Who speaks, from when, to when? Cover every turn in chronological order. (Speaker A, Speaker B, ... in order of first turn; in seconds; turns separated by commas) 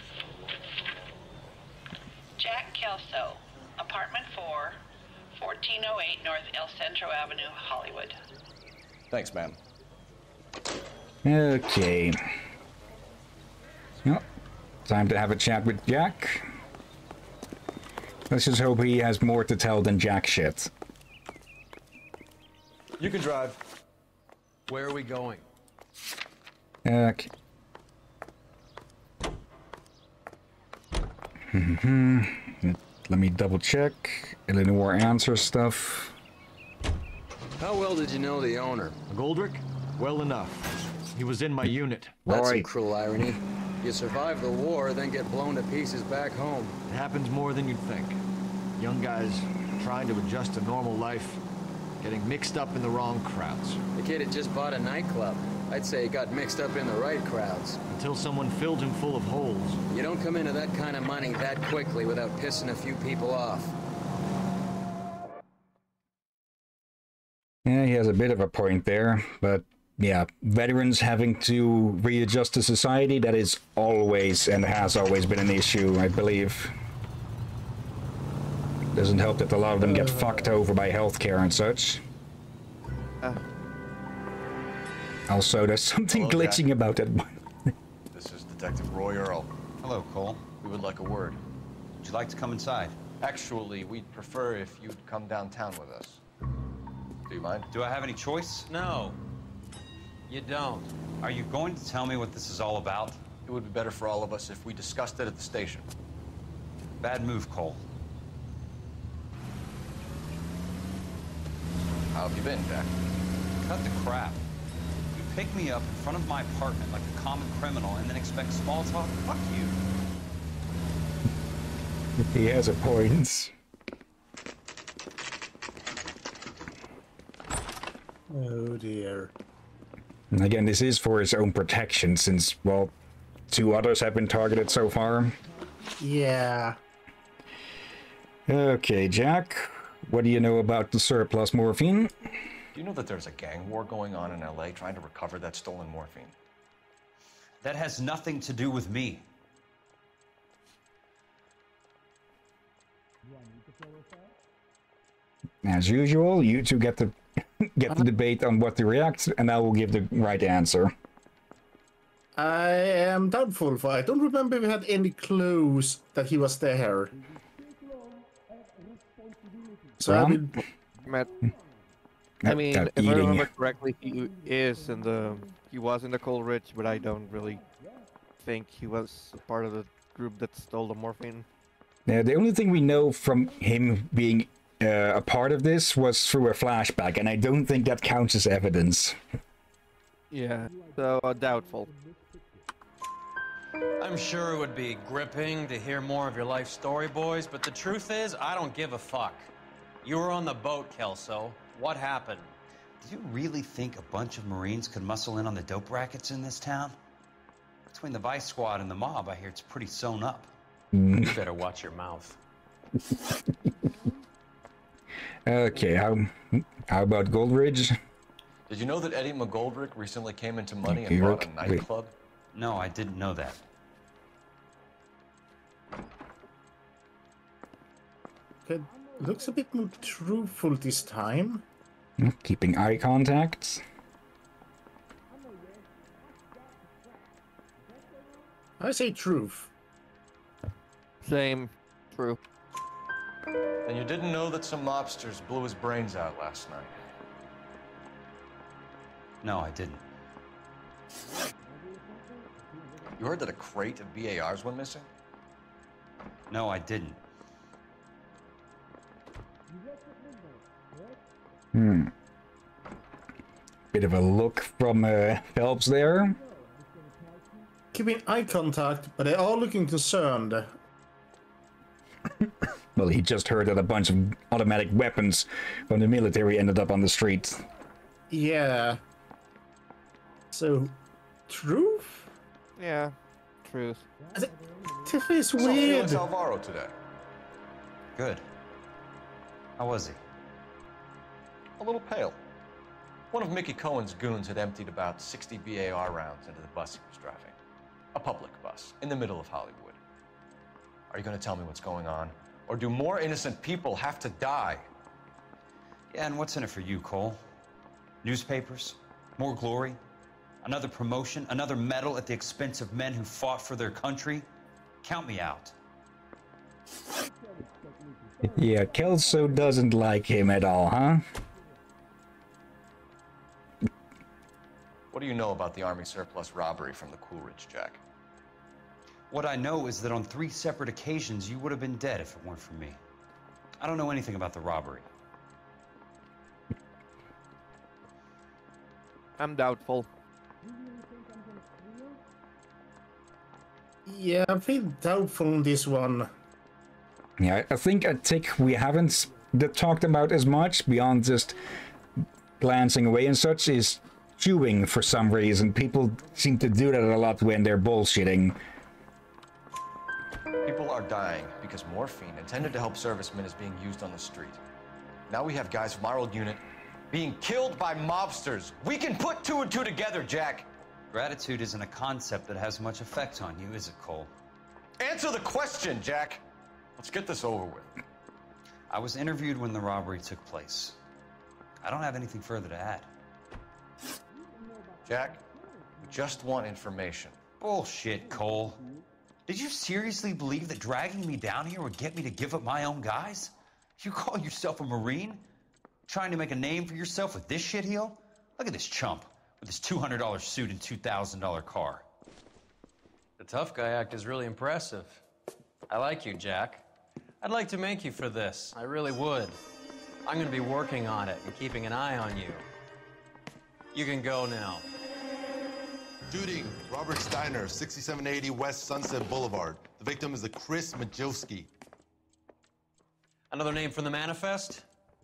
Speaker A: 2.4-4.8, Speaker A: 5.4-8.2, Speaker B: 9.1-9.6, Speaker C: 11.2-12.2, Speaker C: 14.9-16.5, Speaker C: 18.3-20.7, Speaker B: 23.0-23.6, Speaker D: 24.7-25.4, Speaker C: 26.9-27.3, Speaker C: 31.5-36.2, Speaker D: 37.6-39.0, Speaker B: 39.1-42.2, Speaker C: 42.3-42.7, Speaker D: 42.3-46.8, Speaker B: 46.9-48.2, Speaker B: 48.8-51.4, Speaker B: 52.0-53.8, Speaker D: 54.0-57.8, Speaker B: 57.9-59.8, Speaker D: 59.9-63.7, Speaker C: 67.7-76.7, Speaker C: 78.9-82.0, Speaker E: 79.8-80.5, Speaker C: 85.3-87.4, Speaker B: 86.1-86.6, Speaker B: 88.1-89.5, Speaker F: 89.8-90.4, Speaker B: 90.6-91.4, Speaker F: 92.0-93.0, Speaker B: 93.2-96.2, Speaker B: 97.3-97.7, Speaker F: 97.7-98.7, Speaker D: 98.7-99.2, Speaker D: 100.3-100.9, Speaker F: 101.2-103.2, Speaker B: 103.5-105.9, Speaker F: 107.0-107.8, Speaker B: 112.1-112.9, Speaker F: 113.6-114.4, Speaker F: 115.1-119.8, Speaker C: 122.3-123.5, Speaker E: 128.3-129.3, Speaker C: 130.3-132.9, Speaker C: 133.5-135.4, Speaker E: 136.0-136.8, Speaker C: 138.5-142.2, Speaker B: 142.7-146.3, Speaker F: 147.6-149.3, Speaker C: 155.6-160.9, Speaker E: 162.3-167.1, Speaker C: 170.0-170.5, Speaker E: 170.0-170.6, Speaker C: 172.4-173.5, Speaker G: 172.5-177.6, Speaker G: 178.4-181.5, Speaker C: 182.1-189.2, Speaker G: 190.3-191.9, Speaker D: 194.0-199.5, Speaker D: 200.0-202.5, Speaker F: 203.0-207.0, Speaker F: 207.9-210.5, Speaker C: 210.9-211.3, Speaker D: 211.2-212.4, Speaker C: 215.5-217.9, Speaker B: 218.7-222.1, Speaker C: 220.9-221.8, Speaker F: 222.5-223.6, Speaker E: 228.7-231.6, Speaker C: 232.2-233.8, Speaker E: 238.8-239.7, Speaker G: 241.2-242.4, Speaker B: 243.9-246.9, Speaker F: 249.4-250.0, Speaker B: 253.2-255.1, Speaker F: 256.5-257.2, Speaker C: 261.7-262.1, Speaker C: 263.9-266.4, Speaker E: 267.9-270.7, Speaker C: 273.0-277.6, Speaker E: 278.3-279.0, Speaker E: 280.5-280.9, Speaker E: 281.5-282.3, Speaker G: 282.8-283.1, Speaker G: 283.6-284.1, Speaker E: 285.0-286.2, Speaker B: 285.6-286.9, Speaker F: 288.1-288.4, Speaker F: 289.8-290.2, Speaker B: 291.8-292.4, Speaker B: 293.3-297.6, Speaker B: 298.1-300.0, Speaker B: 301.1-304.9, Speaker F: 306.1-307.4, Speaker F: 308.2-310.0, Speaker F: 310.6-314.5, Speaker F: 315.0-315.8, Speaker C: 318.5-321.2, Speaker B: 325.1-328.0, Speaker F: 329.3-333.0, Speaker F: 333.8-335.1, Speaker G: 339.4-340.1, Speaker E: 344.1-346.3, Speaker C: 347.4-351.6, Speaker C: 352.6-358.6, Speaker B: 360.6-364.6, Speaker B: 365.3-370.7, Speaker F: 371.1-374.3, Speaker B: 375.0-376.4, Speaker B: 377.0-377.9, Speaker F: 378.9-381.0, Speaker F: 381.8-383.1, Speaker B: 385.1-385.4, Speaker B: 386.0-387.4, Speaker F: 387.6-388.8, Speaker F: 389.5-395.4, Speaker F: 396.1-402.1, Speaker D: 403.4-405.2, Speaker D: 405.9-406.8, Speaker D: 407.4-409.6, Speaker D: 410.3-412.6, Speaker D: 413.9-414.9, Speaker H: 416.3-421.7, Speaker D: 423.5-424.9